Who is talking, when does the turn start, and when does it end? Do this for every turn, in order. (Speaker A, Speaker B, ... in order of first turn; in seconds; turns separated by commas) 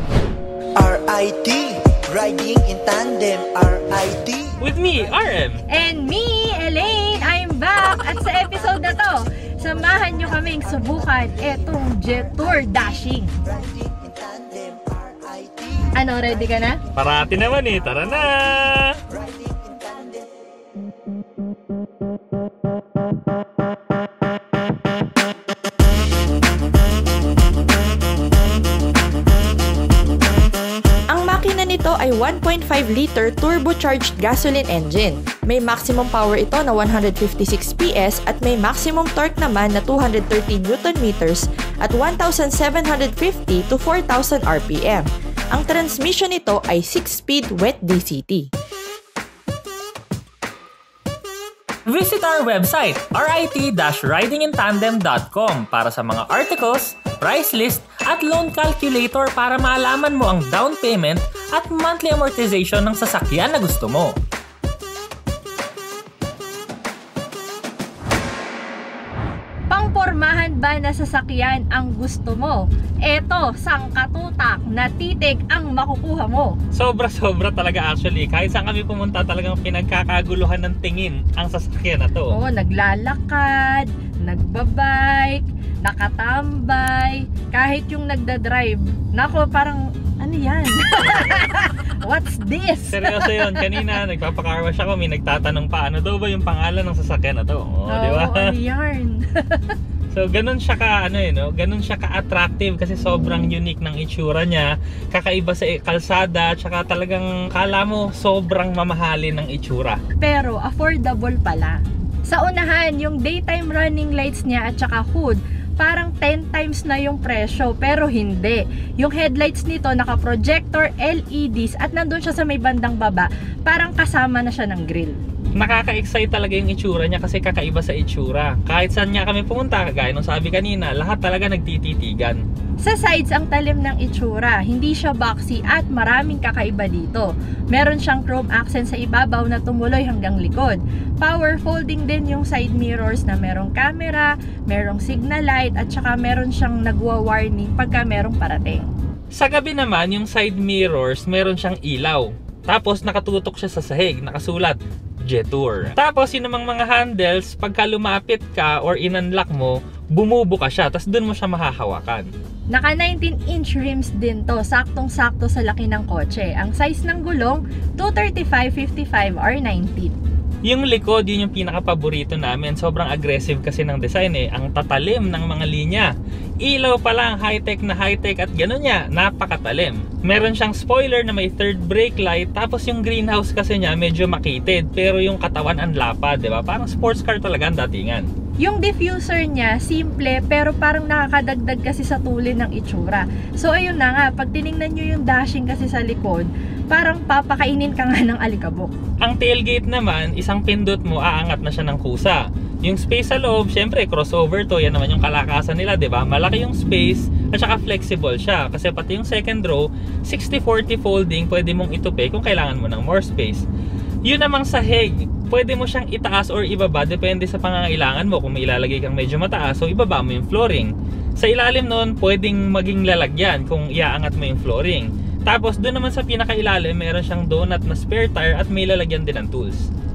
Speaker A: 0.8-4.6, Speaker B: 4.6-5.6, Speaker C: 5.7-13.3, Speaker A: 9.6-12.9, Speaker A: 13.4-15.9, Speaker C: 15.9-16.8, Speaker B: 16.9-19.0, Speaker A: 19.1-20.3, Speaker D: 31.1-48.5, Speaker B: 51.9-64.2, Speaker C: 69.7-76.5, Speaker B: 76.7-82.3, Speaker C: 82.3-93.9, Speaker B: 91.0-91.5, Speaker B: 92.9-98.5, Speaker C: 97.9-99.7, Speaker B: 100.1-110.0, Speaker C: 110.2-125.2, Speaker B: 125.5-132.4, Speaker C: 132.8-148.9, Speaker B: 149.3-162.3, Speaker C: 162.7-170.2, Speaker B: 170.6-176.1, Speaker B: 176.6-188.3, Speaker C: 188.6-198.9, Speaker B: 199.2-213.6, Speaker B: 214.2-229.9